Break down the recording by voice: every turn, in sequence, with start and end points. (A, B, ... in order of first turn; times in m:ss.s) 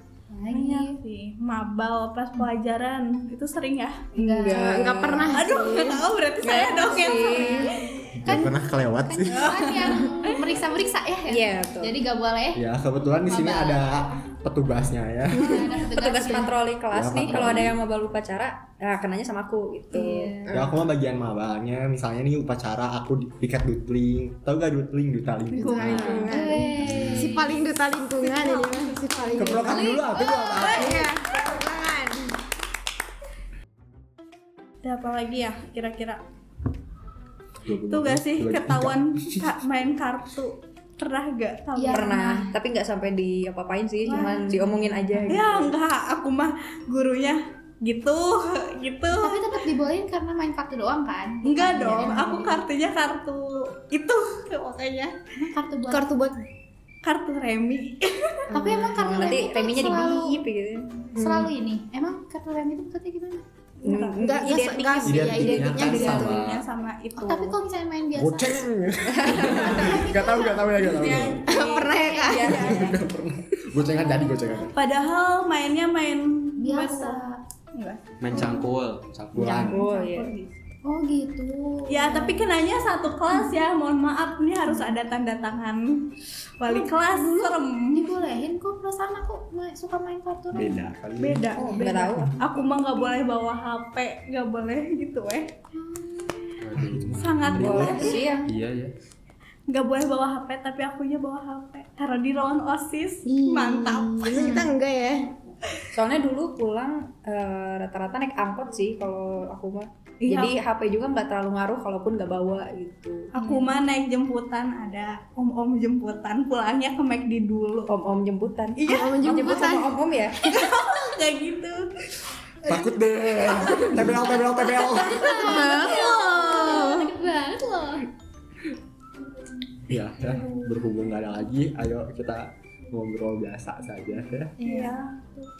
0:00.3-0:01.0 A
0:00.5-0:04.0 B
0:04.2-0:04.8 A
0:04.2-0:05.2 C
0:04.4-0:06.0 D
0:05.2-0:08.4 B
0:06.4-0:07.8 C
0:07.3-0:12.6 A
0:08.1-0:09.6 E
0:09.3-0:10.5 B
0:11.3-0:12.0 C
0:12.6-0:15.6 E
0:13.3-0:13.9 A
0:15.3-0:16.6 A
0:15.4-0:20.4 C
0:16.9-0:17.8 E
0:19.9-0:20.7 A
0:20.5-0:27.4 E
0:25.5-0:26.6 B
0:25.6-0:32.4 D
0:25.9-0:26.3 C
0:26.2-0:27.6 A
0:28.3-0:30.9 A
0:29.4-0:31.1 E
0:30.6-0:31.1 B
0:34.8-0:36.2 B
0:37.6-0:39.5 E
0:37.9-0:42.2 B
0:41.7-0:42.5 A
0:41.9-0:45.8 C
0:44.1-0:44.7 B
0:44.1-0:44.5 A
0:45.3-0:49.5 B
0:49.2-0:52.6 A
0:51.4-0:55.2 B
0:55.5-0:56.1 A
0:55.9-0:56.5 D
0:57.0-0:58.4 B
0:58.5-1:00.4 A
0:58.6-1:01.1 C
0:58.6-0:59.1 D
1:01.1-1:03.4 A
1:03.8-1:04.5 B
1:03.8-1:06.1 C
1:04.2-1:06.5 D
1:05.1-1:06.6 E
1:05.6-1:06.4 A
1:05.8-1:07.6 B
1:07.2-1:08.6 A
1:08.2-1:11.4 E
1:09.1-1:09.6 C
1:09.4-1:12.9 A
1:10.9-1:11.4 B
1:11.4-1:12.8 D
1:11.6-1:13.0 C
1:12.3-1:12.9 B
1:12.5-1:14.8 E
1:13.8-1:14.6 A
1:14.7-1:17.2 B
1:16.6-1:17.4 A
1:17.8-1:18.6 B
1:18.2-1:19.5 F
1:18.4-1:18.6 A
1:19.3-1:20.5 B
1:19.4-1:19.7 E
1:19.4-1:20.4 C
1:20.8-1:22.5 A
1:21.9-1:28.2 B
1:23.3-1:23.6 A
1:26.7-1:30.9 A
1:30.5-1:32.0 E
1:31.2-1:35.5 B
1:31.6-1:32.4 C
1:36.6-1:37.8 F
1:36.8-1:38.0 E
1:37.2-1:38.4 B
1:37.5-1:38.5 C
1:37.7-1:38.4 A
1:38.4-1:38.9 F
1:39.7-1:44.6 B
1:43.4-1:45.3 D
1:44.3-1:44.6 A
1:45.9-1:53.3 C
1:50.2-1:50.6 B
1:53.3-1:58.0 B
1:57.9-2:00.5 C
1:58.8-1:59.4 B
1:58.9-2:00.0 D
2:00.4-2:01.9 B
2:02.6-2:05.6 E
2:04.9-2:08.1 A
2:05.2-2:07.0 B
2:05.4-2:06.9 D
2:09.9-2:14.5 E
2:14.6-2:15.4 A
2:14.6-2:15.1 B